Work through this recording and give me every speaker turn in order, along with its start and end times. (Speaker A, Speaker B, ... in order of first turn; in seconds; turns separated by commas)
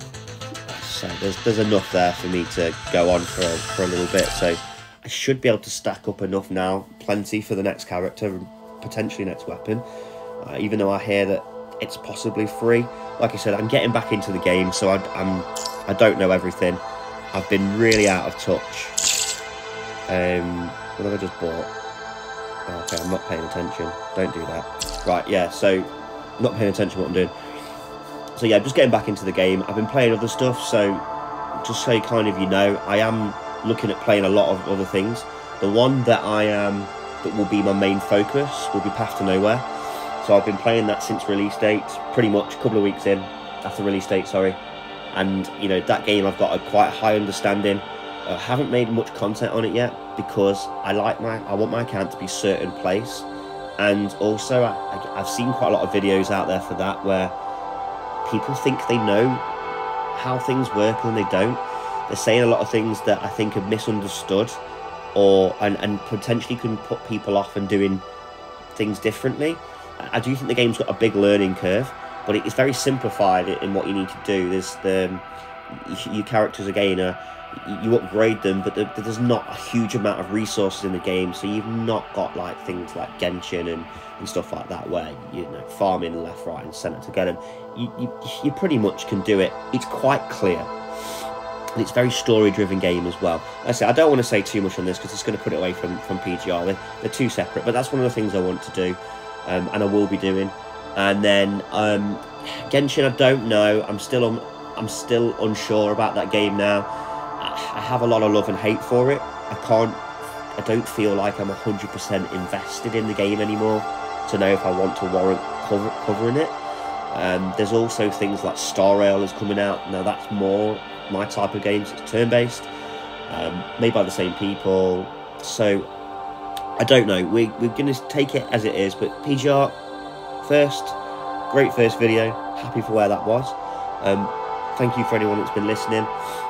Speaker A: 0.7-9.8, Speaker A: 10.4-19.0, Speaker A: 20.1-21.7, Speaker A: 22.7-27.3, Speaker A: 28.4-31.0, Speaker A: 31.6-39.7, Speaker A: 40.2-44.6, Speaker A: 45.1-53.3, Speaker A: 53.8-57.4, Speaker A: 58.2-59.4, Speaker A: 60.1-64.6, Speaker A: 65.1-68.1, Speaker A: 68.8-90.7, Speaker A: 91.8-110.0, Speaker A: 110.6-116.6, Speaker A: 117.1-122.7, Speaker A: 123.3-125.9, Speaker A: 126.8-129.8, Speaker A: 130.4-131.0, Speaker A: 131.5-136.1